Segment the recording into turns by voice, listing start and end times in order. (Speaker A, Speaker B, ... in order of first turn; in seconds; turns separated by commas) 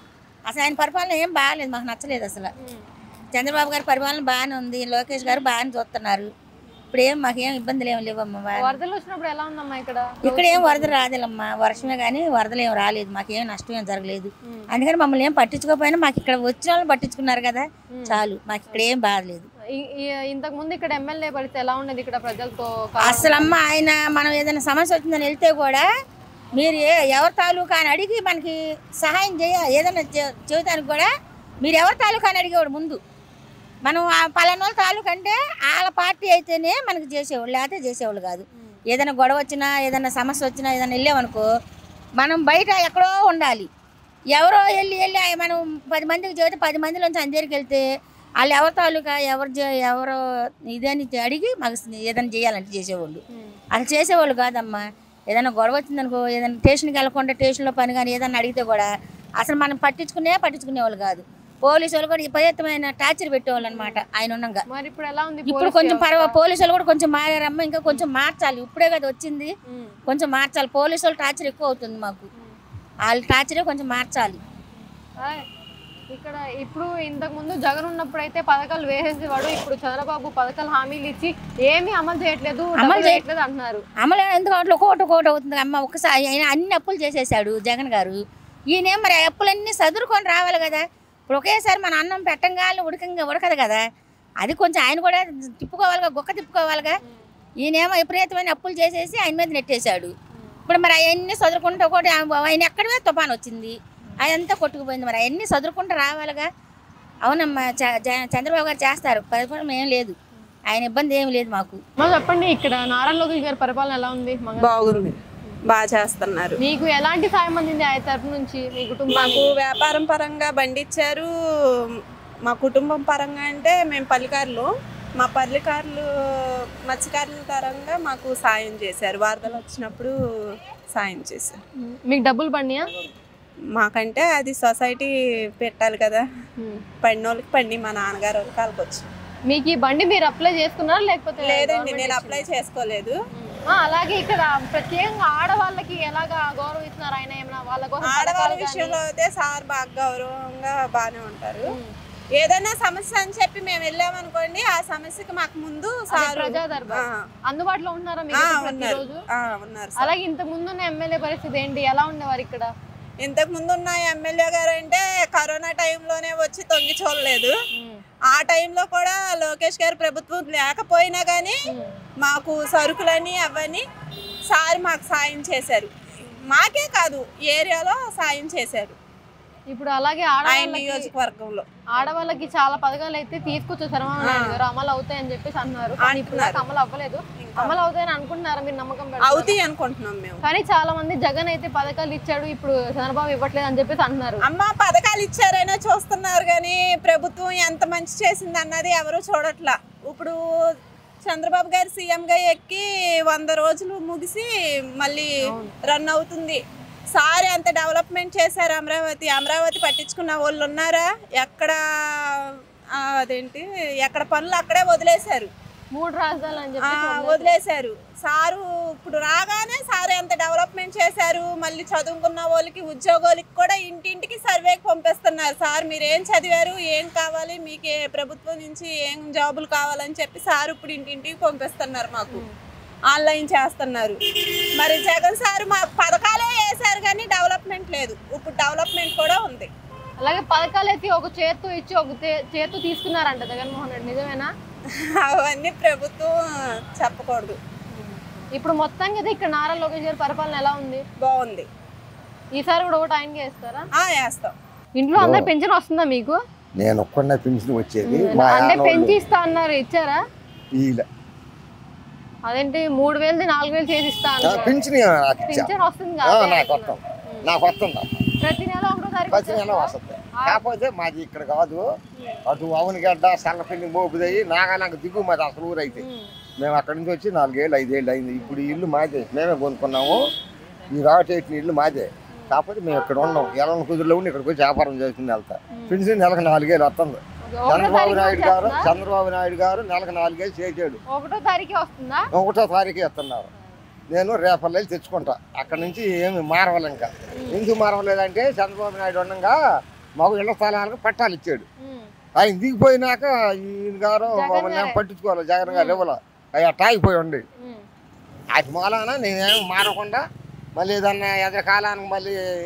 Speaker A: 0.5-2.5, Speaker A: 3.3-6.3, Speaker A: 6.9-8.8, Speaker B: 8.6-11.0, Speaker A: 10.2-19.5, Speaker B: 19.8-23.6, Speaker A: 23.0-25.9, Speaker A: 26.6-31.1, Speaker A: 31.6-33.0, Speaker A: 33.8-41.5, Speaker A: 42.2-43.7, Speaker A: 44.3-47.9, Speaker A: 48.4-53.2, Speaker A: 53.7-64.7, Speaker B: 63.6-64.0, Speaker B: 64.7-66.4, Speaker A: 65.5-69.5, Speaker B: 69.7-70.0, Speaker A: 70.1-72.3, Speaker A: 73.1-74.4, Speaker B: 76.1-83.8, Speaker A: 82.8-83.2, Speaker A: 84.0-88.2, Speaker A: 88.7-93.8, Speaker A: 94.4-97.0, Speaker A: 97.6-100.1, Speaker A: 100.7-106.5, Speaker A: 107.3-110.2, Speaker A: 110.7-111.8, Speaker B: 112.0-114.8, Speaker C: 114.6-116.6, Speaker B: 116.6-119.6, Speaker C: 119.1-121.3, Speaker C: 121.9-130.2, Speaker C: 130.9-131.6, Speaker B: 131.8-132.9, Speaker C: 133.8-136.3, Speaker C: 137.0-139.1, Speaker B: 139.5-142.5, Speaker C: 141.4-143.2, Speaker B: 143.3-149.0, Speaker C: 148.0-151.8, Speaker C: 152.4-157.3, Speaker B: 156.1-159.2, Speaker C: 158.3-160.1, Speaker B: 160.0-162.7, Speaker C: 163.2-167.6, Speaker B: 167.8-168.0, Speaker C: 168.3-171.6, Speaker B: 171.7-171.9, Speaker C: 172.2-173.8, Speaker C: 174.5-175.9, Speaker C: 176.5-179.0, Speaker B: 179.7-181.1, Speaker C: 180.4-181.7, Speaker B: 182.0-189.6, Speaker C: 184.2-184.6, Speaker C: 186.0-186.6, Speaker C: 187.4-187.8, Speaker C: 189.2-190.4, Speaker B: 190.4-194.4, Speaker C: 194.4-200.4, Speaker C: 201.2-205.3, Speaker B: 205.5-205.7, Speaker C: 205.9-206.6, Speaker C: 207.1-215.5, Speaker B: 215.9-217.6, Speaker C: 216.8-232.4, Speaker C: 233.1-234.2, Speaker C: 234.8-239.7, Speaker B: 240.2-244.5, Speaker C: 244.9-246.4, Speaker C: 246.9-247.6, Speaker B: 247.9-251.0, Speaker C: 251.2-251.7, Speaker B: 252.6-253.9, Speaker C: 253.9-254.6, Speaker B: 255.0-256.4, Speaker D: 255.2-255.5, Speaker D: 256.8-259.2, Speaker B: 258.1-260.2, Speaker D: 260.8-261.1, Speaker B: 262.5-264.8, Speaker D: 264.4-265.7, Speaker B: 265.5-267.5, Speaker D: 266.2-268.2, Speaker B: 268.4-270.6, Speaker D: 269.3-271.9, Speaker D: 272.5-276.1, Speaker B: 276.0-276.3, Speaker D: 276.6-280.2, Speaker D: 280.9-291.0, Speaker B: 287.5-288.9, Speaker B: 291.1-292.2, Speaker D: 292.3-293.5, Speaker D: 294.1-299.6, Speaker D: 300.2-301.6, Speaker B: 301.8-302.1, Speaker D: 302.4-307.4, Speaker B: 304.3-305.0, Speaker B: 305.6-306.0, Speaker B: 307.6-307.8, Speaker D: 308.5-310.2, Speaker D: 310.8-312.4